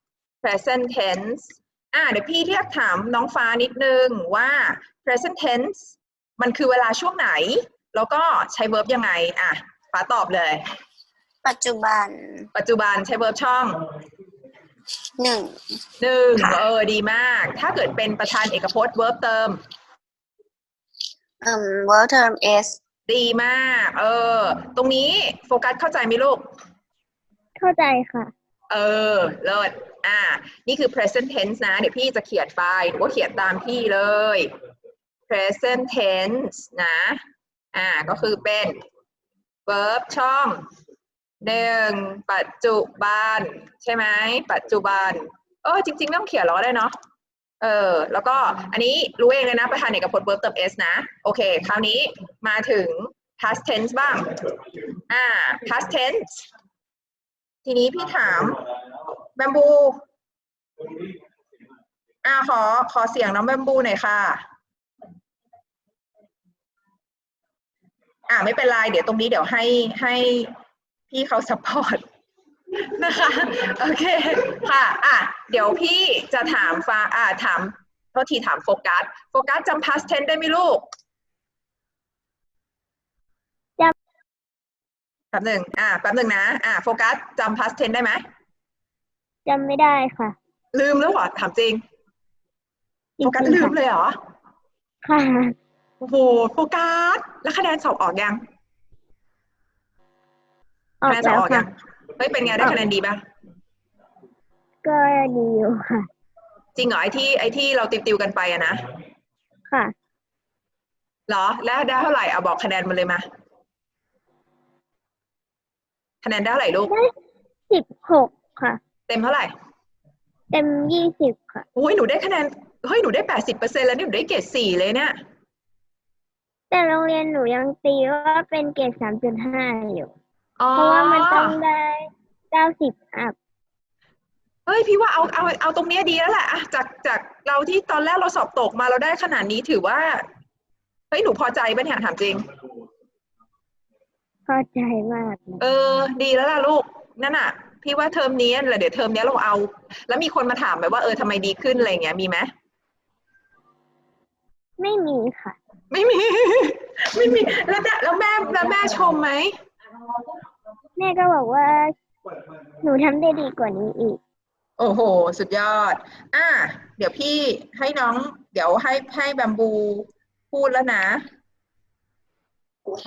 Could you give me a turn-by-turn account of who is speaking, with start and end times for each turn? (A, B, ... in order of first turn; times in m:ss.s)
0:00.4-0:10.6 A
0:11.4-0:12.5 B
0:12.6-0:13.8 A
0:15.2-0:15.6 B
0:16.0-0:19.6 A
0:16.4-0:16.6 B
0:21.4-0:22.8 B
0:23.1-0:26.4 A
0:27.6-0:28.3 C
0:28.7-0:34.5 A
0:35.3-0:37.2 A
0:37.7-0:38.8 A
0:39.7-0:40.6 A
0:41.4-0:47.0 A
0:47.6-0:54.3 A
0:55.1-0:56.4 A
0:57.6-0:58.6 A
0:59.4-1:00.0 A
1:02.2-1:04.4 A
1:08.3-1:10.5 A
1:11.1-1:12.0 A
1:12.8-1:20.8 A
1:25.3-1:28.2 A
1:29.5-1:30.4 C
1:30.7-1:31.8 A
1:33.2-1:33.8 C
1:33.2-1:34.2 A
1:35.0-1:35.6 C
1:36.0-1:38.4 A
1:41.0-1:41.7 C
1:41.1-1:43.2 A
1:44.8-1:46.1 C
1:46.8-1:48.8 A
1:51.3-1:53.2 A
1:56.2-1:56.9 A
1:57.7-1:58.8 C
1:59.1-1:59.5 A
2:00.5-2:01.6 C
2:01.8-2:05.2 A
2:06.7-2:10.1 C
2:10.6-2:11.6 A
2:10.8-2:13.4 C
2:14.7-2:20.2 A
2:21.1-2:22.5 A
2:24.5-2:25.6 C
2:25.6-2:32.5 A
2:34.8-2:35.6 C
2:35.9-2:39.6 A
2:41.0-2:42.0 C
2:42.8-2:44.2 C
2:44.8-2:51.3 A